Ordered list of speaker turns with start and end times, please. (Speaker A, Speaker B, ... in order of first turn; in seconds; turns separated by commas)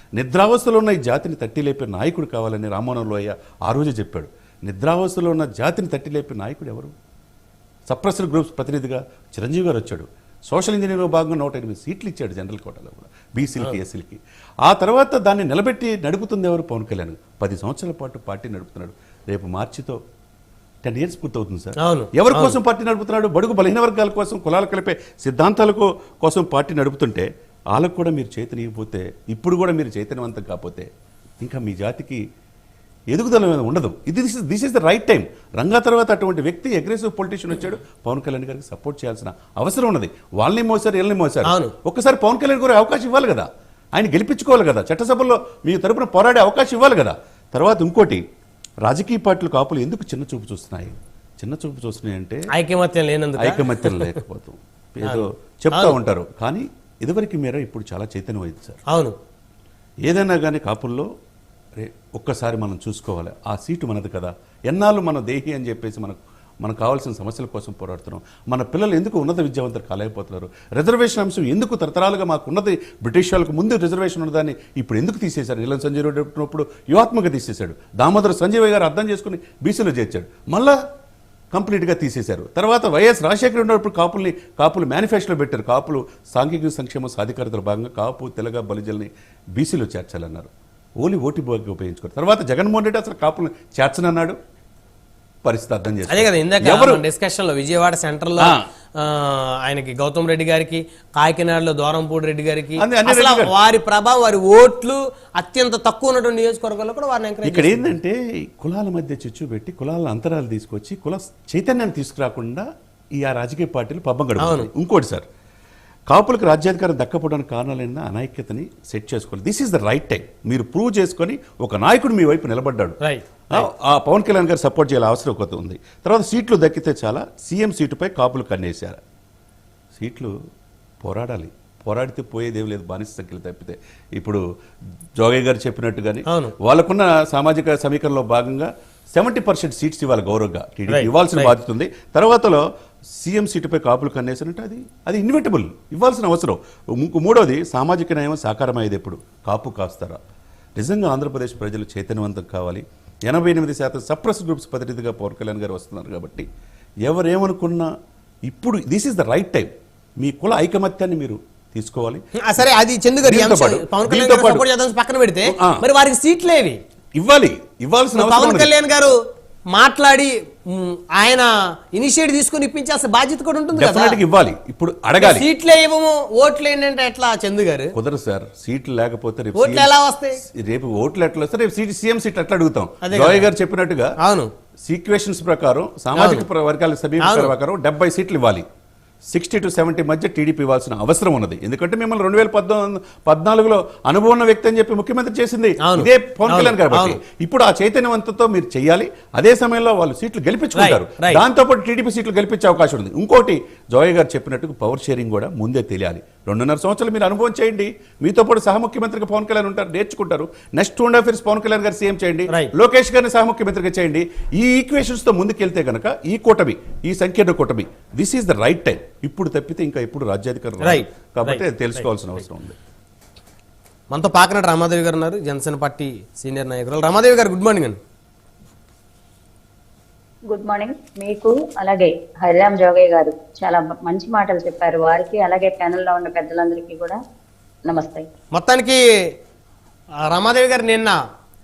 Speaker A: 0.1-6.9, Speaker A: 7.9-20.0, Speaker A: 20.8-30.9, Speaker B: 21.8-22.6, Speaker A: 31.4-32.2, Speaker A: 33.1-48.2, Speaker B: 41.4-41.7, Speaker A: 48.8-52.5, Speaker B: 52.5-54.1, Speaker A: 53.4-58.8, Speaker B: 55.0-56.0, Speaker B: 58.9-59.1, Speaker A: 60.0-61.1, Speaker A: 61.8-80.8, Speaker A: 81.5-94.4, Speaker A: 95.4-97.0, Speaker B: 96.1-107.9, Speaker A: 98.4-98.6, Speaker A: 102.8-103.5, Speaker A: 107.4-115.2, Speaker B: 114.4-114.7, Speaker A: 116.1-123.0, Speaker B: 123.0-123.7, Speaker A: 123.5-129.0, Speaker A: 129.9-130.3, Speaker A: 131.0-134.4, Speaker A: 135.2-142.6, Speaker B: 136.3-136.5, Speaker B: 140.9-141.6, Speaker A: 143.2-150.2, Speaker A: 150.8-156.5, Speaker A: 157.0-157.9, Speaker A: 158.5-162.2, Speaker B: 162.4-166.8, Speaker A: 163.2-164.6, Speaker A: 165.4-165.8, Speaker A: 167.2-168.7, Speaker B: 168.1-169.2, Speaker B: 169.7-174.2, Speaker A: 173.7-175.5, Speaker B: 175.2-177.9, Speaker A: 177.9-184.2, Speaker B: 179.5-180.4, Speaker B: 183.0-183.5, Speaker B: 184.2-184.5, Speaker A: 184.8-188.6, Speaker B: 186.1-186.4, Speaker B: 187.2-187.5, Speaker A: 189.3-222.8, Speaker B: 195.8-197.2, Speaker B: 200.8-201.4, Speaker B: 220.8-221.6, Speaker B: 224.1-228.0, Speaker C: 230.5-237.2, Speaker C: 237.8-238.3, Speaker B: 238.5-239.0, Speaker B: 240.3-241.2